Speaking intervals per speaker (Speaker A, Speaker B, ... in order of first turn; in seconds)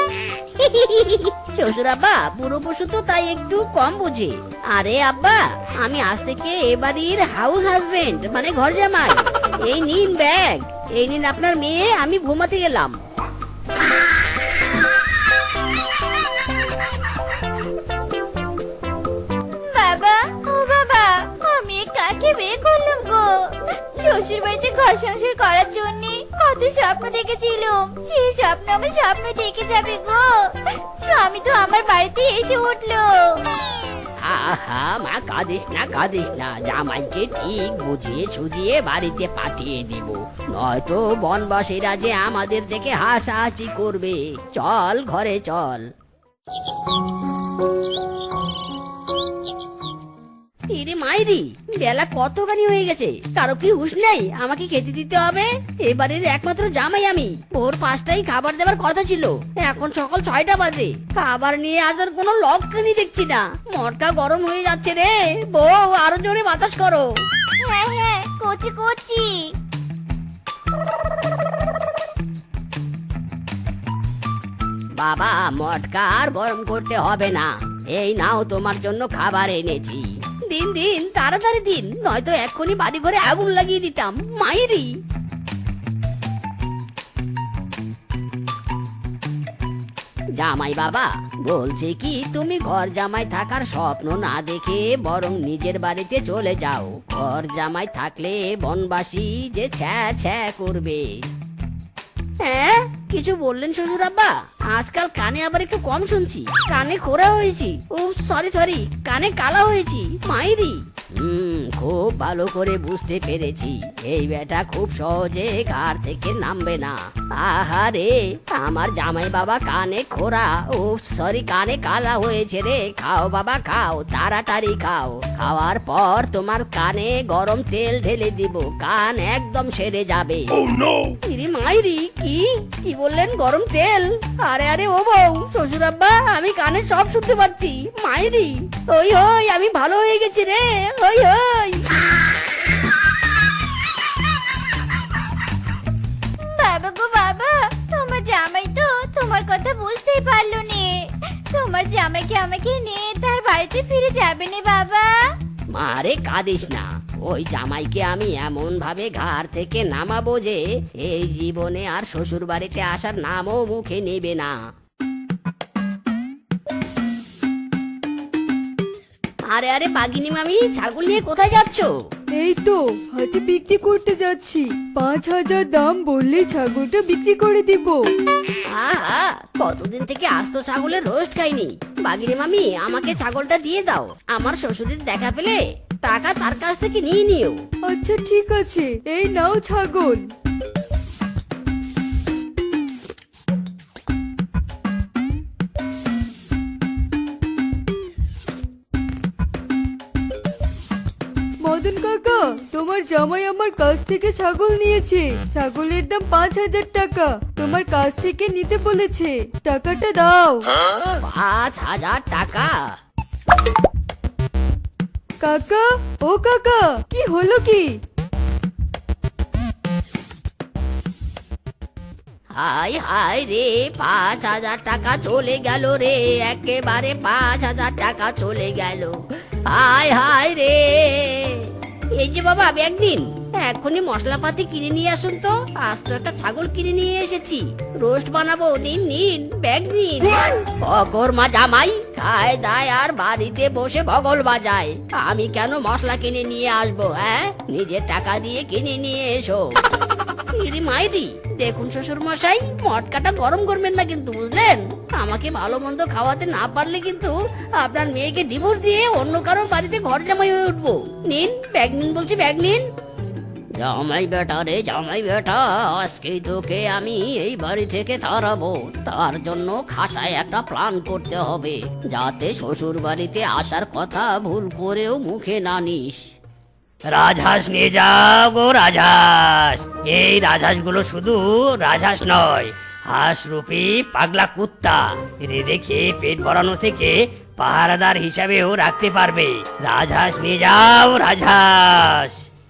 Speaker A: 0.6-13.0, 34.2-45.9, 50.7-67.1, 75.0-84.9, 90.4-101.2, 102.4-141.9, 155.7-164.5, 169.5-171.9, 178.7-187.6, 211.2-212.7, 222.6-229.2, 229.7-249.7, 250.6-262.8, 263.8-276.3
Speaker B: 19.7-33.4, 67.6-69.5, 146.5-155.1
Speaker C: 172.4-178.0, 187.9-190.2, 201.6-210.7, 215.4-217.9
Speaker D: 277.1-292.4